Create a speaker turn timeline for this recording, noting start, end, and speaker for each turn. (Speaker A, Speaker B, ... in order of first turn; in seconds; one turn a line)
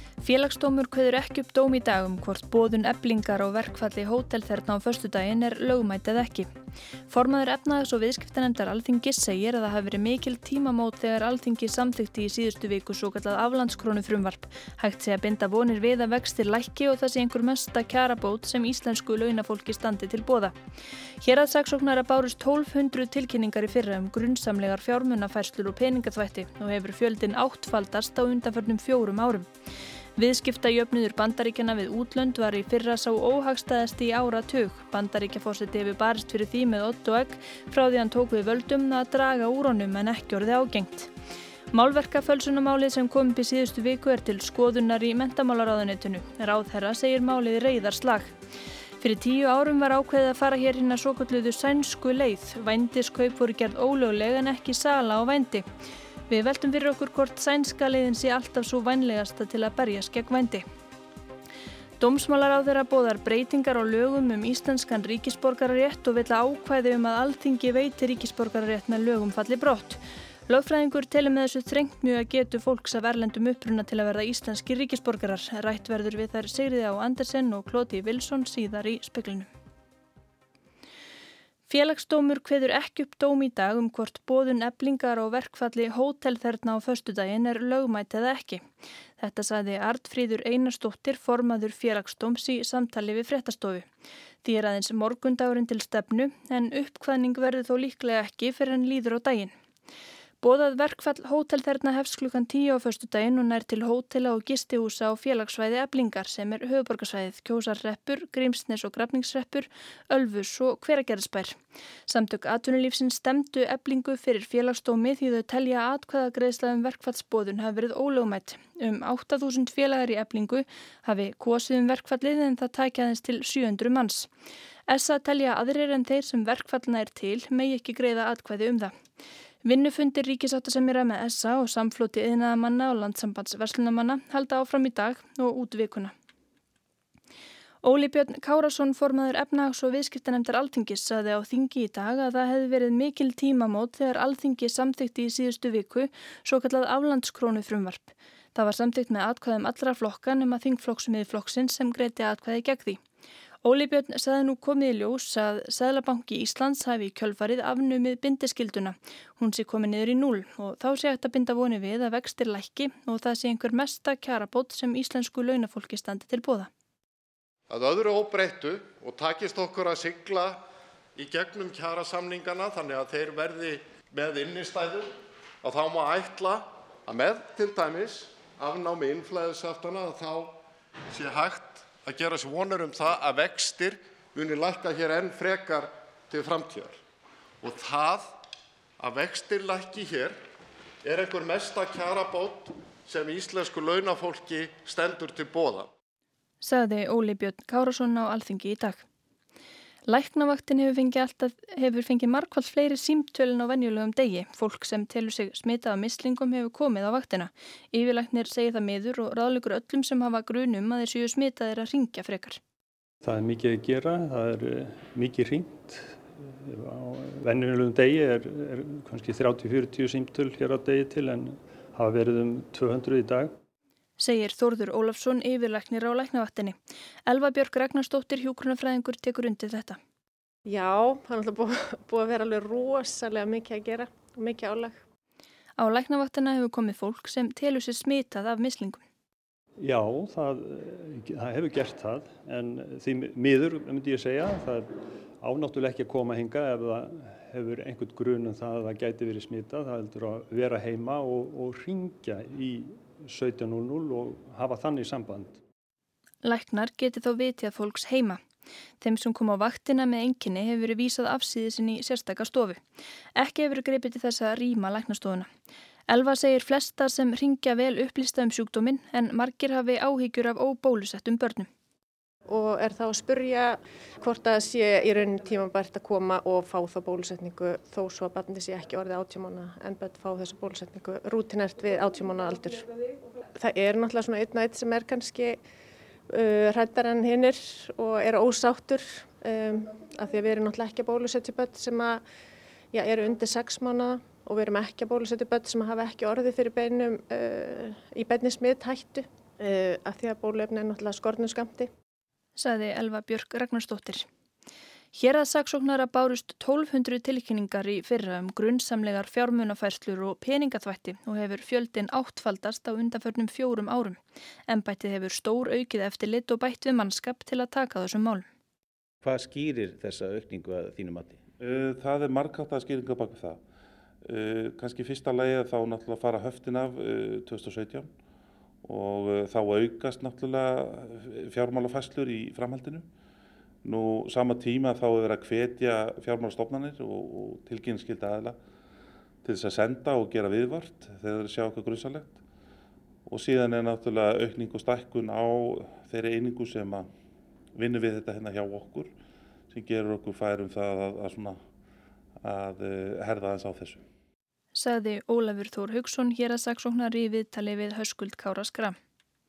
Speaker A: 0.2-6.5
Speaker A: 7.1-20.6
Speaker A: 21.2-29.5
Speaker A: 30.2-41.1
Speaker A: 41.7-48.4
Speaker A: 49.0-55.6
Speaker A: 56.3-60.6
Speaker A: 62.0-79.5
Speaker A: 81.7-88.7
Speaker A: 89.2-93.9
Speaker A: 94.4-99.5
Speaker A: 100.4-124.3
Speaker A: 124.9-128.9
Speaker A: 129.6-136.1
Speaker A: 137.8-153.0
Speaker A: 153.6-166.7
Speaker B: 167.7-170.6
Speaker B: 171.2-175.1
Speaker B: 175.6-180.6
Speaker B: 181.1-187.0
Speaker B: 187.6-188.4
Speaker B: 189.0-190.4
Speaker B: 191.0-195.9
Speaker A: 196.6-199.0
Speaker A: 200.1-212.6
Speaker C: 213.2-223.5
Speaker A: 224.2-230.0
Speaker D: 230.7-235.0
Speaker A: 235.8-239.0
Speaker C: 239.8-255.6
Speaker A: 256.4-258.4
Speaker A: 259.0-262.8
Speaker A: 263.4-265.5
Speaker A: 266.1-271.7
Speaker D: 272.5-282.9
Speaker D: 283.5-285.6
Speaker D: 286.3-292.2
Speaker D: 292.9-301.9
Speaker A: 302.6-304.3
Speaker A: 305.1-318.4
Speaker E: 319.2-321.4
Speaker F: 321.6-323.6
Speaker F: 324.2-328.1
Speaker F: 328.8-333.1
Speaker F: 333.8-338.6
Speaker F: 339.4-342.4
Speaker F: 343.2-347.1
Speaker F: 347.8-349.1
Speaker F: 349.7-351.6
Speaker F: 352.4-354.0
Speaker A: 354.7-358.9